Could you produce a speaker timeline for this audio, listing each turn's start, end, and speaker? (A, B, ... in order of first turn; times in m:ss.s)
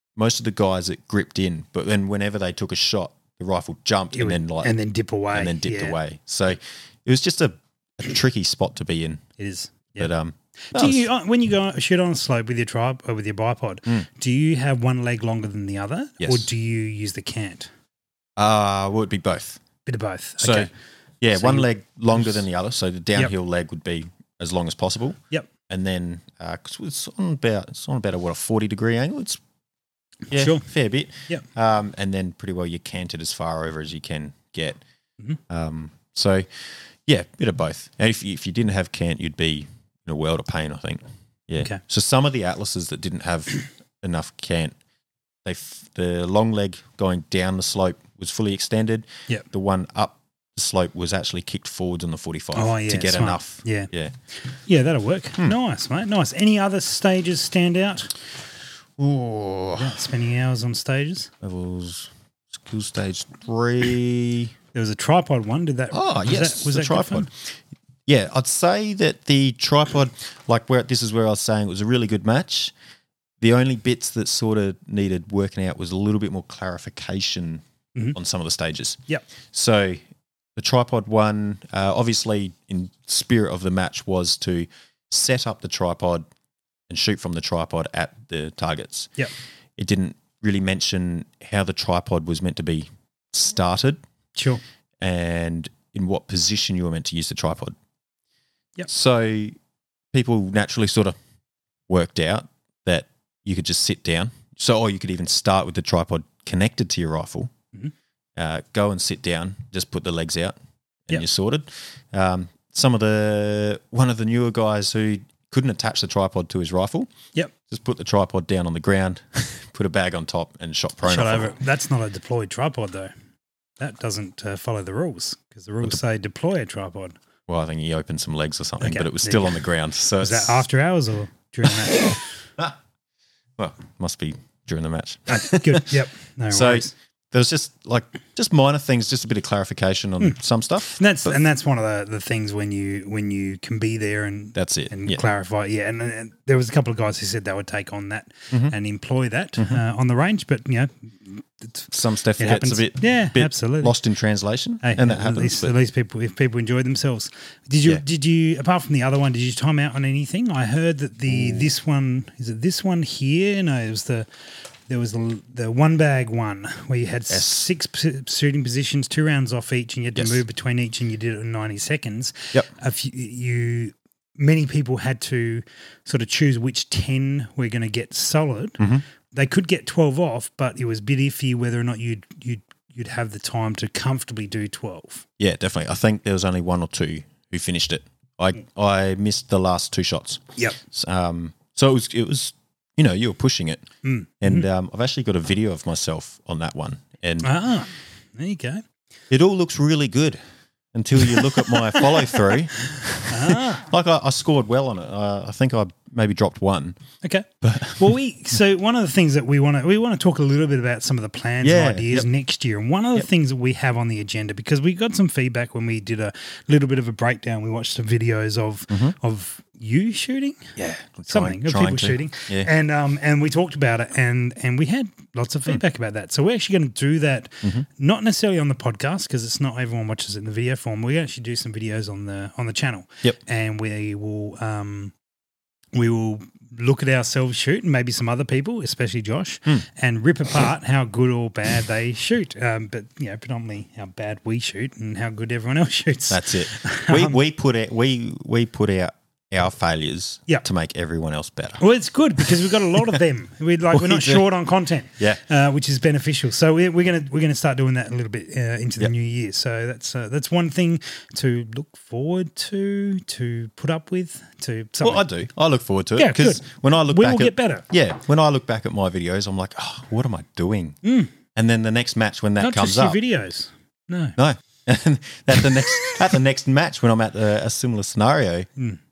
0:00.2-0:04.7 A
0:04.1-0:06.0 B
0:05.3-0:09.2 A
0:09.4-0:10.1 B
0:10.0-0:11.1 A
0:10.7-0:17.7 B
0:16.2-0:16.5 A
0:18.4-0:19.6 A
0:19.8-0:20.7 B
0:20.4-0:20.7 A
0:21.2-0:29.4 A
0:21.3-0:22.3 B
0:30.3-0:34.8 A
0:30.3-0:30.6 B
0:35.5-0:44.7 A
0:45.4-0:54.1 A
0:52.5-0:53.9 B
0:54.7-0:58.1 B
0:59.0-0:59.9 A
0:59.8-1:01.3 B
1:01.4-1:04.5 A
1:04.7-1:07.3 B
1:05.9-1:12.7 A
1:13.4-1:20.0 A
1:20.6-1:26.2 A
1:26.9-1:29.1 A
1:29.8-1:34.0 A
1:34.4-1:34.6 B
1:35.0-1:37.8 A
1:38.9-1:39.6 A
1:40.1-1:41.1 A
1:41.9-1:47.5 A
1:48.4-1:50.5 A
1:51.1-1:57.1 A
1:57.7-2:01.5 A
2:01.0-2:03.1 B
2:03.8-2:07.2 B
2:07.5-2:10.6 A
2:08.8-2:09.6 B
2:10.2-2:12.3 B
2:13.6-2:15.9 A
2:15.3-2:16.9 B
2:16.5-2:21.4 A
2:20.9-2:33.9 B
2:24.5-2:25.2 A
2:31.9-2:35.7 A
2:34.8-2:44.3 B
2:41.3-2:41.7 A
2:44.9-2:58.8 B
2:47.3-2:47.6 A
2:59.3-3:05.2 B
3:05.4-3:13.8 A
3:14.0-3:14.6 B
3:14.4-3:17.5 A
3:17.4-3:18.8 B
3:19.3-3:20.4 A
3:20.9-3:27.0 A
3:23.3-3:23.9 B
3:27.2-3:40.8 B
3:27.6-3:28.1 A
3:31.6-3:32.3 A
3:40.8-3:42.7 A
3:41.3-3:55.1 B
3:55.9-4:07.4 B
4:06.3-4:11.8 A
4:11.8-4:25.2 B
4:12.4-4:13.0 A
4:13.9-4:14.5 A
4:25.0-4:31.0 A
4:26.2-4:27.8 B
4:31.0-4:31.3 B
4:31.5-4:33.2 A
4:32.6-4:34.4 B
4:34.4-4:38.7 A